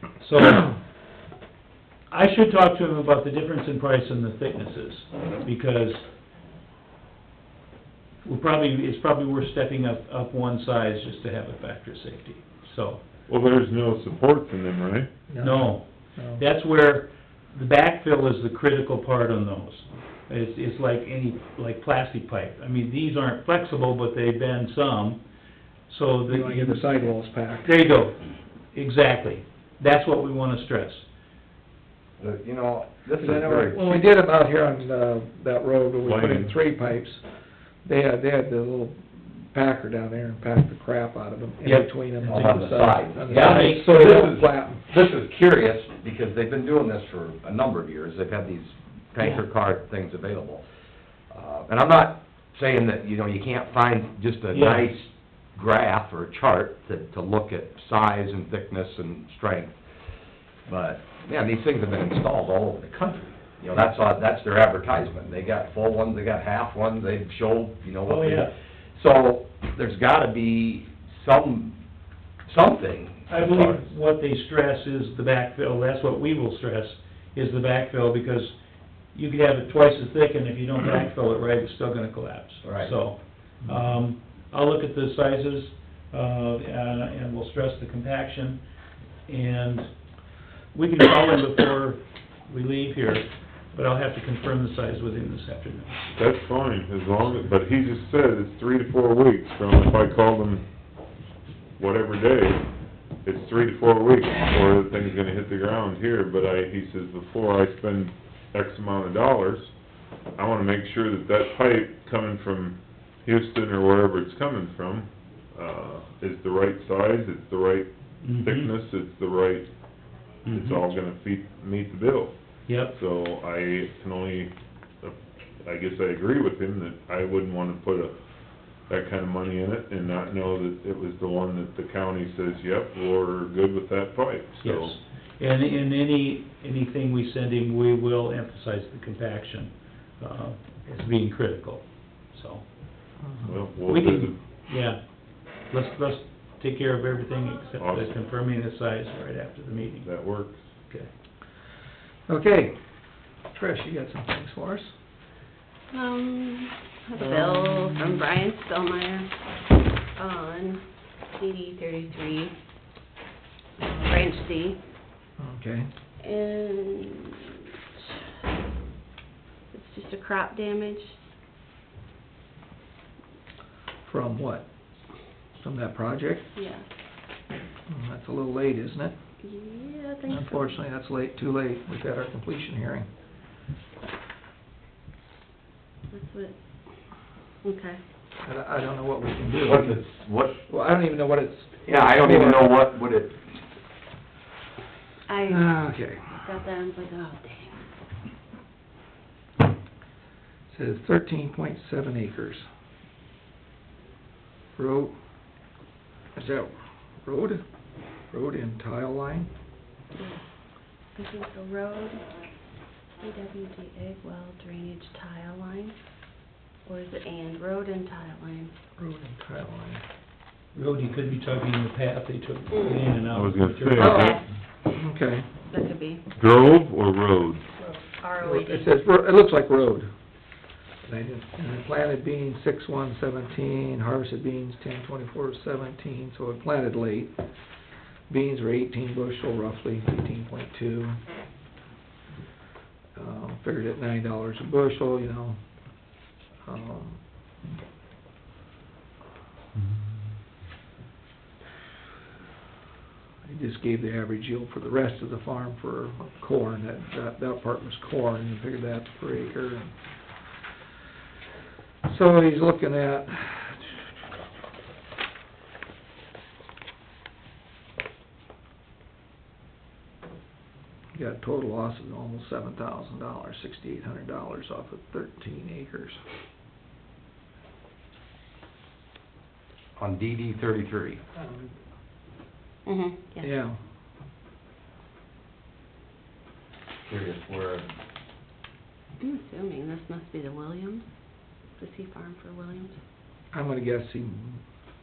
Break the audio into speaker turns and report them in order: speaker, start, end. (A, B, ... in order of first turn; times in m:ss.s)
0:00.2-0:00.7 A
0:02.1-0:06.0 A
0:08.2-0:13.0 A
0:13.3-0:15.1 B
0:15.3-0:16.4 C
0:15.4-0:25.2 A
0:25.9-0:26.8 A
0:26.3-0:27.8 C
0:27.6-0:28.2 A
0:28.7-0:31.0 A
0:32.2-0:33.9 D
0:33.2-0:37.2 C
0:33.7-0:34.0 A
0:36.0-0:36.5 B
0:37.8-0:44.8 C
0:41.6-0:42.5 A
0:42.2-0:50.6 D
0:43.3-0:44.2 A
0:51.3-0:59.8 D
0:54.5-0:54.9 A
1:00.7-1:11.8 D
1:08.0-1:08.5 A
1:12.4-1:13.9 D
1:13.3-1:18.5 A
1:19.1-1:28.6 A
1:22.6-1:23.0 D
1:29.3-1:29.9 A
1:30.7-1:36.1 A
1:36.2-1:40.6 B
1:41.8-1:42.6 B
1:43.2-1:49.7 B
1:50.4-1:59.7 B
1:58.2-1:58.7 A
2:00.4-2:00.8 A
2:00.5-2:02.4 B
2:02.7-2:02.9 A
2:02.9-2:08.2 B
2:08.9-2:15.0 B
2:14.6-2:22.6 A
2:23.2-2:23.5 C
2:23.4-2:24.4 B
2:23.9-2:25.0 A
2:25.5-2:30.1 A
2:27.8-2:28.1 B
2:30.0-2:30.7 B
2:32.3-2:32.7 C
2:33.5-2:34.9 C
2:35.9-2:39.3 E
2:37.2-2:38.2 C
2:40.2-2:40.8 E
2:41.4-2:42.5 E
2:43.8-2:44.8 E
2:45.4-2:45.9 C
2:46.2-2:48.0 E
2:49.7-2:51.2 E
2:54.0-2:54.7 C
2:55.6-2:56.5 C
2:56.5-2:56.8 E
2:57.9-2:59.1 C
2:59.4-3:00.8 E
3:00.3-3:03.1 C
3:06.1-3:06.6 E
3:07.6-3:08.0 E
3:08.4-3:10.0 C
3:09.6-3:10.6 D
3:10.7-3:12.8 C
3:11.8-3:13.4 D
3:15.3-3:15.7 E
3:15.5-3:16.3 C
3:16.3-3:17.8 E
3:20.7-3:22.7 C
3:24.8-3:25.2 C
3:26.3-3:26.7 C
3:27.2-3:27.6 C
3:28.3-3:29.5 C
3:30.1-3:30.4 E
3:31.1-3:32.2 E
3:33.2-3:36.0 E
3:36.8-3:38.7 E
3:39.0-3:40.0 C
3:40.7-3:44.3 A
3:42.7-3:43.1 E
3:43.3-3:44.4 B
3:43.9-3:44.4 E
3:44.0-3:44.3 C
3:44.8-3:45.5 C
3:45.7-3:46.2 E
3:46.4-3:47.6 B
3:47.8-3:48.9 E
3:48.4-3:50.1 C
3:51.0-3:57.3 C
3:58.3-4:01.2 C
4:03.1-4:05.6 C
4:06.6-4:07.2 C
4:13.4-4:19.9 C
4:22.0-4:24.0 C
4:31.1-4:36.2 C
4:40.0-4:41.2 D
4:41.4-4:41.7 C
4:42.8-4:43.5 E
4:43.4-4:43.8 C
4:47.0-4:47.9 D
4:49.2-4:51.0 E
4:51.8-4:53.0 E
4:53.5-4:54.6 C